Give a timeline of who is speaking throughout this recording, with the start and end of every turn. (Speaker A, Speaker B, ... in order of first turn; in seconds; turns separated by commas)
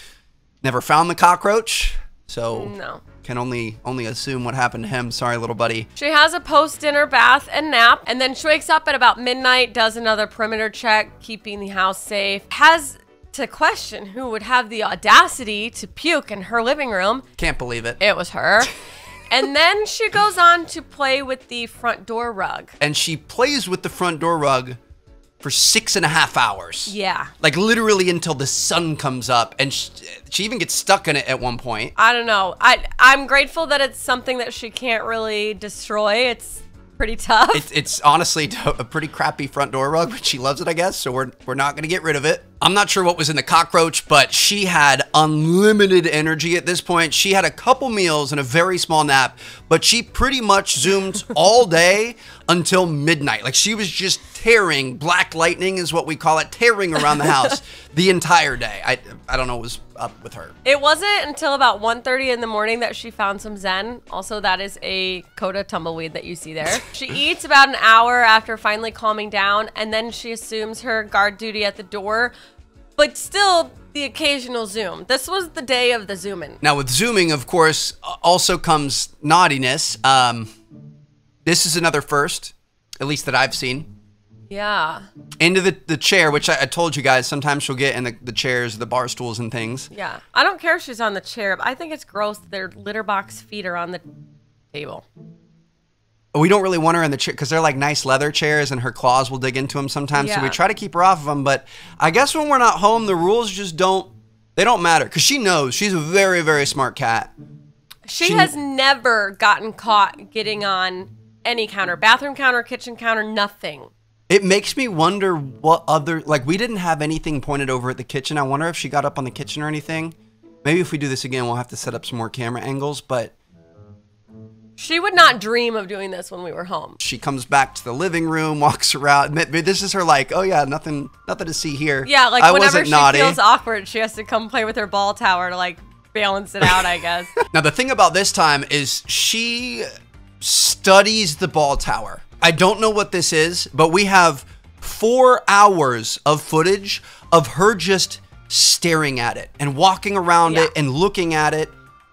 Speaker A: 0.6-5.9, Speaker B: 2.5-3.0, Speaker B: 6.0-17.2, Speaker A: 17.4-18.0, Speaker B: 18.0-18.7, Speaker B: 19.3-22.8, Speaker A: 22.8-24.8, Speaker A: 25.4-31.9, Speaker B: 26.9-27.3, Speaker B: 31.9-37.7, Speaker A: 37.5-60.5, Speaker B: 57.0-57.5, Speaker B: 60.6-72.3, Speaker B: 73.0-76.6, Speaker A: 76.6-80.5, Speaker A: 81.4-83.9, Speaker B: 84.5-85.1, Speaker A: 85.4-89.9, Speaker B: 89.9-94.0, Speaker B: 94.7-95.0, Speaker A: 96.3-107.3, Speaker B: 100.1-100.6, Speaker B: 108.1-113.9, Speaker A: 108.2-108.5, Speaker A: 114.3-123.3, Speaker B: 124.8-127.0, Speaker A: 127.0-133.4, Speaker B: 132.0-137.3, Speaker A: 137.4-139.9, Speaker A: 140.4-151.7, Speaker B: 150.5-150.7